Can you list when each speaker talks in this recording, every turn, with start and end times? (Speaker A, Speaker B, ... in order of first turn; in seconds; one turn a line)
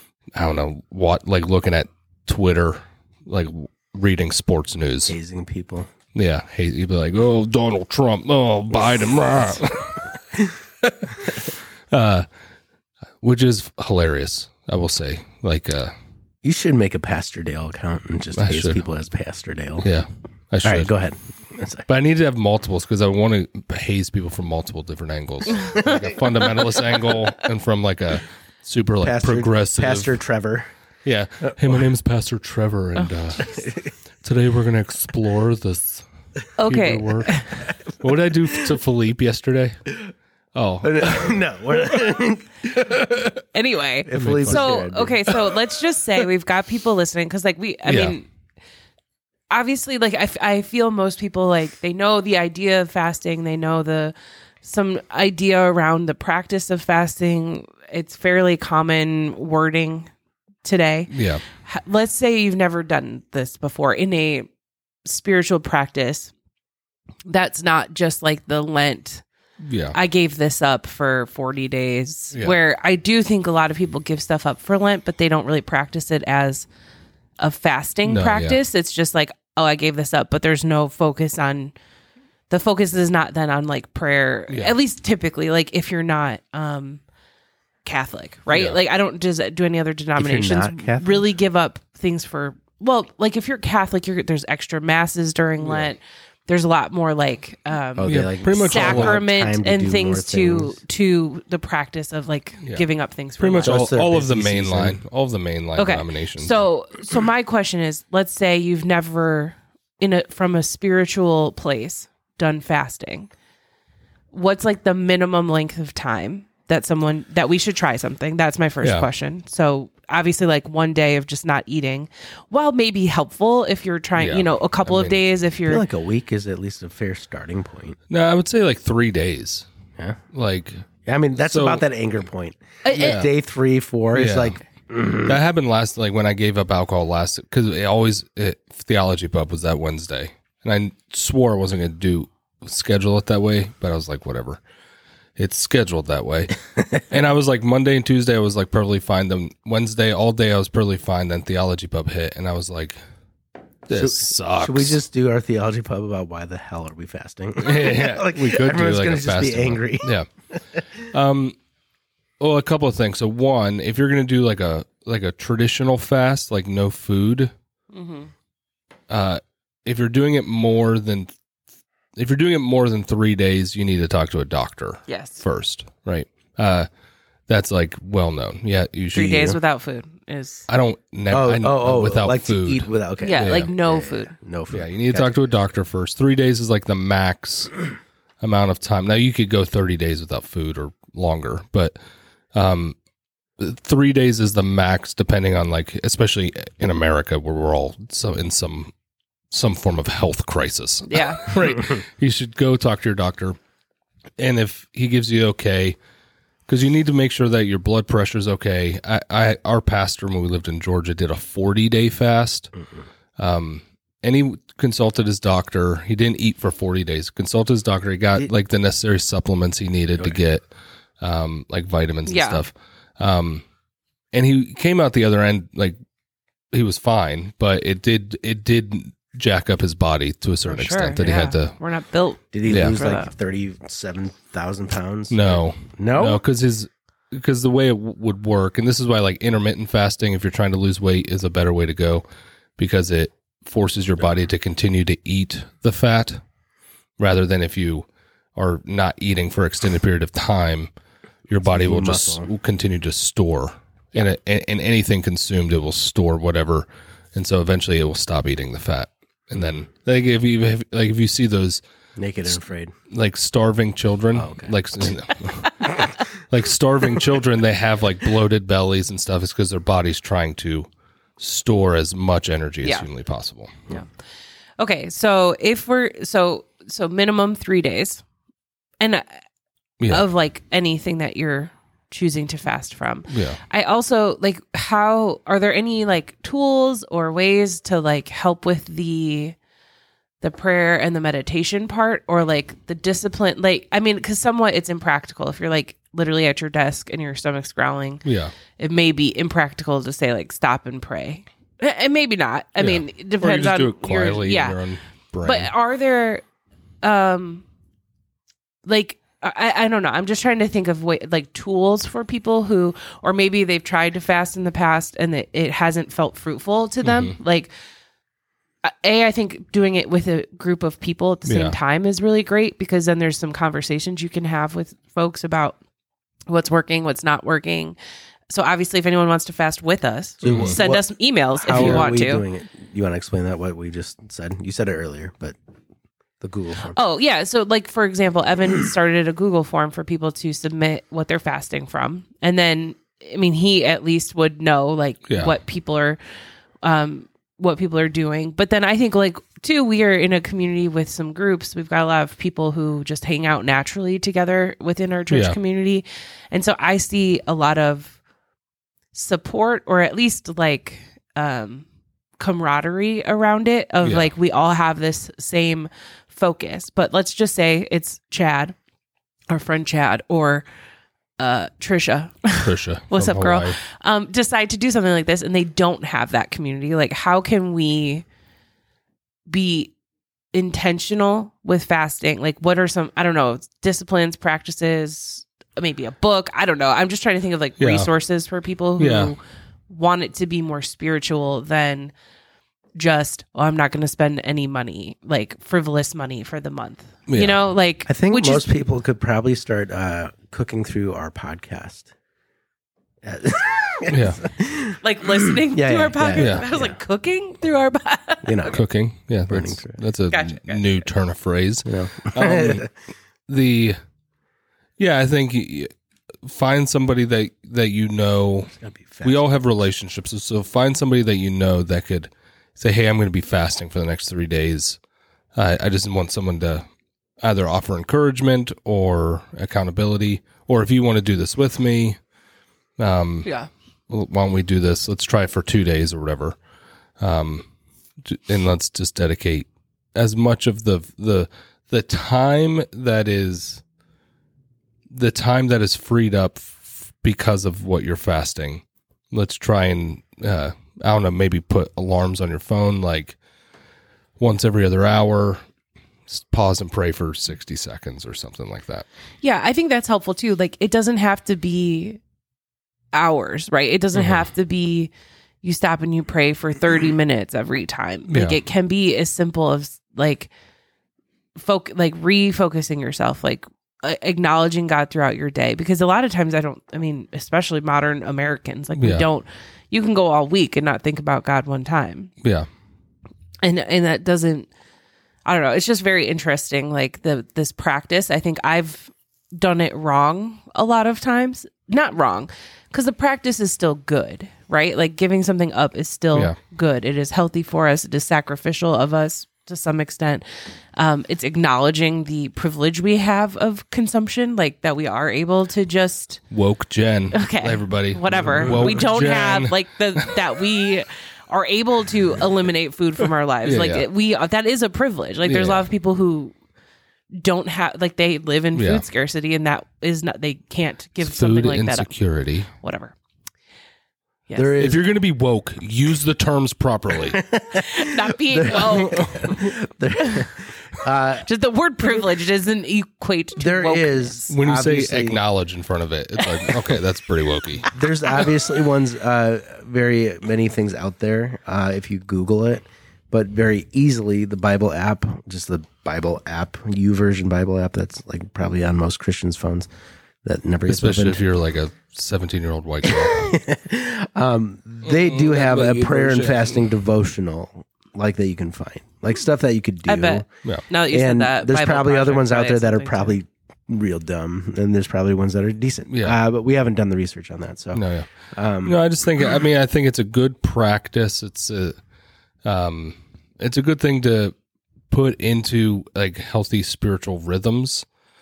Speaker A: 0.4-5.2
Speaker B: 5.1-5.9
Speaker A: 6.1-10.1
Speaker A: 10.8-12.3
Speaker A: 13.2-15.9
Speaker B: 16.4-19.9
Speaker A: 18.4-18.8
Speaker A: 19.8-20.9
Speaker B: 20.6-21.9
Speaker A: 21.9-30.1
Speaker B: 29.0-30.7
Speaker A: 31.1-33.6
Speaker B: 33.5-33.8
Speaker A: 34.2-36.0
Speaker C: 36.6-37.6
Speaker A: 36.7-39.9
Speaker A: 40.5-41.4
Speaker B: 40.8-43.3
Speaker A: 42.9-43.3
Speaker C: 43.5-48.3
Speaker B: 44.0-45.4
Speaker A: 44.1-44.7
Speaker A: 47.9-48.2
Speaker C: 49.5-60.1
Speaker C: 60.6-61.1
Speaker A: 61.1-61.4
Speaker C: 61.6-64.5
Speaker C: 65.1-66.3
Speaker C: 67.3-69.2
Speaker A: 69.6-70.0
Speaker C: 69.9-76.7
Speaker C: 77.4-81.7
Speaker A: 78.0-78.6
Speaker C: 82.5-87.0
Speaker C: 87.8-103.8
Speaker A: 88.5-88.8
Speaker B: 90.2-91.2
Speaker A: 95.6-95.9
Speaker B: 98.0-100.8
Speaker A: 98.1-99.2
Speaker A: 103.4-106.6
Speaker B: 103.7-105.0
Speaker C: 105.8-113.3
Speaker C: 114.3-125.8
Speaker A: 118.8-119.1
Speaker A: 124.2-125.2
Speaker B: 125.7-128.0
Speaker A: 128.1-129.7
Speaker A: 130.3-130.8
Speaker B: 131.1-135.4
Speaker A: 131.4-131.8
Speaker C: 132.8-133.2
Speaker A: 133.0-133.3
Speaker A: 134.1-134.6
Speaker A: 135.2-144.6
Speaker A: 145.4-153.0
Speaker A: 153.9-155.0
Speaker B: 153.9-160.1
Speaker A: 157.6-160.3
Speaker A: 161.0-161.6
Speaker A: 162.4-167.5
Speaker C: 167.9-168.3
Speaker A: 169.1-171.3
Speaker A: 172.2-176.9
Speaker C: 175.1-175.4
Speaker A: 177.5-179.6
Speaker C: 179.1-180.7
Speaker A: 180.7-183.7
Speaker B: 181.3-185.4
Speaker C: 183.2-184.3
Speaker A: 184.7-187.8
Speaker A: 188.4-191.9
Speaker A: 192.6-193.0
Speaker A: 193.6-198.9
Speaker A: 199.5-203.6
Speaker C: 201.1-201.6
Speaker A: 204.4-206.0
Speaker A: 206.7-212.7
Speaker A: 213.4-220.6
Speaker A: 221.2-223.6
Speaker C: 222.3-222.6
Speaker A: 224.3-226.0
Speaker A: 226.7-231.8
Speaker C: 230.7-233.3
Speaker B: 232.5-236.4
Speaker A: 232.7-233.0
Speaker A: 235.3-242.2
Speaker A: 242.8-246.4
Speaker A: 247.2-250.9
Speaker A: 251.5-261.8
Speaker B: 251.6-252.5
Speaker B: 262.2-262.9
Speaker A: 263.1-270.9
Speaker B: 264.3-264.7
Speaker A: 271.4-273.7
Speaker C: 274.8-278.2
Speaker C: 279.0-279.4
Speaker A: 280.0-280.3
Speaker C: 280.1-289.6
Speaker A: 283.3-283.6
Speaker C: 290.4-298.2
Speaker A: 298.2-298.5
Speaker C: 298.8-304.8
Speaker A: 302.8-305.7
Speaker C: 305.4-306.4
Speaker C: 307.0-307.6
Speaker C: 308.9-317.7
Speaker A: 317.0-317.3
Speaker C: 318.8-325.8
Speaker A: 321.5-321.8
Speaker C: 326.5-328.0
Speaker C: 328.5-332.4
Speaker A: 330.4-330.8
Speaker B: 330.5-335.6
Speaker A: 331.7-332.1
Speaker B: 336.4-337.0
Speaker C: 336.9-346.2
Speaker C: 346.8-358.2
Speaker A: 355.3-355.6
Speaker C: 359.1-361.9
Speaker C: 362.4-368.8
Speaker A: 364.0-364.3
Speaker C: 369.5-370.7
Speaker C: 371.4-378.2
Speaker A: 372.6-373.8
Speaker C: 379.5-379.9
Speaker C: 380.5-392.1
Speaker A: 387.8-388.1
Speaker A: 389.0-389.3
Speaker C: 393.0-398.7
Speaker A: 397.3-397.6
Speaker B: 398.1-402.1
Speaker B: 403.2-406.9
Speaker A: 404.1-404.4
Speaker C: 405.0-408.7
Speaker A: 406.4-406.6
Speaker B: 408.4-408.8
Speaker A: 408.7-412.9
Speaker B: 409.5-410.0
Speaker C: 410.3-410.8
Speaker B: 411.9-412.9
Speaker A: 413.5-414.0
Speaker A: 415.0-415.9
Speaker A: 416.4-425.0
Speaker B: 418.8-419.6
Speaker A: 425.6-426.9
Speaker A: 427.4-432.2
Speaker A: 433.0-433.5
Speaker C: 433.4-433.7
Speaker A: 434.1-436.6
Speaker A: 437.2-437.7
Speaker A: 438.2-443.8
Speaker A: 445.1-453.4
Speaker A: 454.4-455.6
Speaker A: 456.3-459.1
Speaker C: 459.4-462.2
Speaker C: 463.1-465.1
Speaker C: 465.6-470.5
Speaker A: 468.3-468.6
Speaker C: 471.6-482.3
Speaker A: 479.0-479.3
Speaker C: 483.6-484.7
Speaker C: 485.5-500.4
Speaker C: 501.0-506.4
Speaker A: 506.5-510.4
Speaker C: 507.3-516.5
Speaker A: 513.6-514.0
Speaker A: 515.4-515.9
Speaker C: 517.3-522.1
Speaker A: 518.7-519.0
Speaker A: 521.2-522.7
Speaker C: 522.8-523.1
Speaker C: 524.5-524.8
Speaker B: 524.5-525.0
Speaker A: 524.8-527.4
Speaker B: 527.3-531.5
Speaker C: 527.7-529.6
Speaker C: 531.5-534.5
Speaker B: 533.6-535.4
Speaker A: 534.5-537.9
Speaker B: 537.9-549.9
Speaker B: 550.4-551.4
Speaker A: 550.9-553.5
Speaker B: 553.0-560.5
Speaker A: 555.0-556.8
Speaker C: 560.1-563.4
Speaker B: 561.1-568.0
Speaker A: 566.1-566.4
Speaker A: 568.0-568.3
Speaker B: 568.5-569.0
Speaker A: 568.8-572.0
Speaker A: 572.6-574.5
Speaker A: 575.1-578.1